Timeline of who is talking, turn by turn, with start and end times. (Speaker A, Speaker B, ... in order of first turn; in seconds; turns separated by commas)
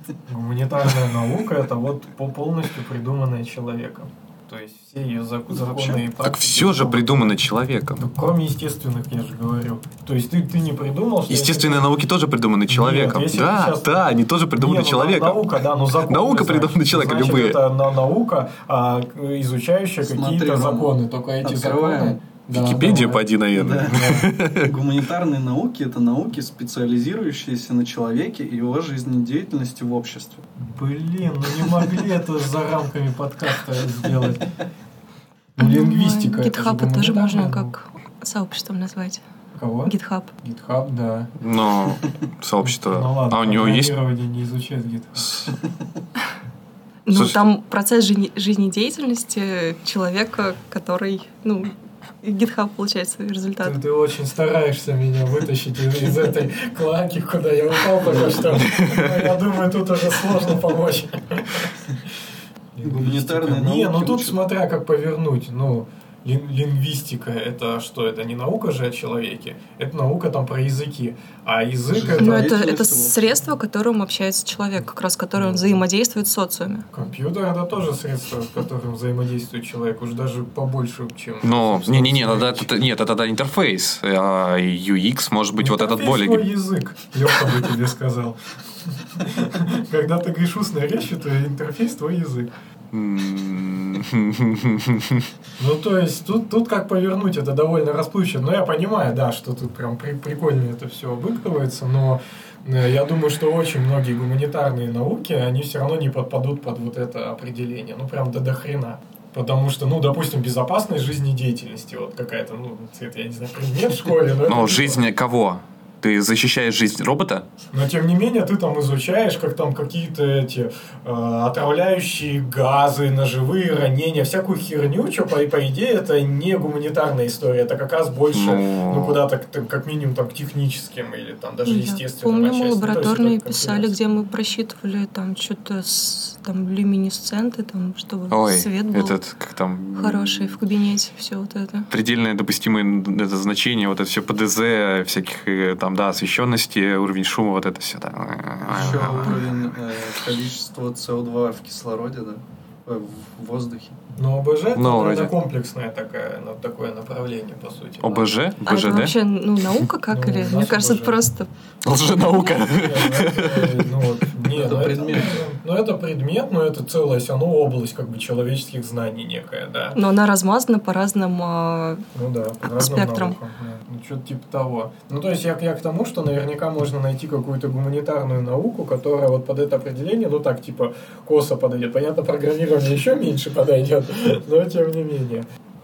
Speaker A: 0.3-7.3, Speaker B: 6.2-8.1, Speaker A: 8.0-11.9, Speaker B: 11.3-17.6, Speaker A: 12.7-23.2, Speaker C: 20.0-22.2, Speaker B: 22.5-24.7, Speaker C: 23.5-30.4, Speaker A: 23.8-24.3, Speaker A: 30.6-34.5, Speaker A: 35.6-37.8, Speaker D: 35.6-39.2, Speaker A: 39.6-41.3, Speaker D: 39.9-40.3, Speaker B: 41.4-44.0, Speaker A: 42.6-45.3, Speaker B: 45.2-45.5, Speaker D: 47.1-53.8, Speaker B: 47.1-47.4, Speaker A: 53.6-61.8, Speaker B: 58.7-59.1, Speaker A: 62.8-72.5, Speaker C: 62.8-64.4, Speaker C: 71.9-73.2, Speaker D: 72.2-76.9, Speaker A: 75.4-75.8, Speaker A: 76.9-82.8, Speaker B: 81.4-86.5, Speaker A: 85.6-92.5, Speaker B: 92.9-95.3, Speaker A: 95.6-115.0, Speaker B: 114.5-117.5, Speaker A: 117.7-133.9, Speaker B: 128.3-129.2, Speaker D: 131.7-139.2, Speaker B: 138.3-140.6, Speaker D: 139.9-141.9, Speaker B: 141.9-149.6, Speaker C: 148.7-154.0, Speaker A: 154.2-158.4, Speaker B: 154.8-155.3, Speaker B: 158.0-159.2, Speaker D: 158.7-161.5, Speaker A: 160.1-161.2, Speaker B: 161.8-164.0, Speaker A: 162.1-170.0, Speaker C: 164.5-165.4, Speaker D: 169.9-172.1, Speaker A: 172.2-185.5, Speaker D: 172.6-173.4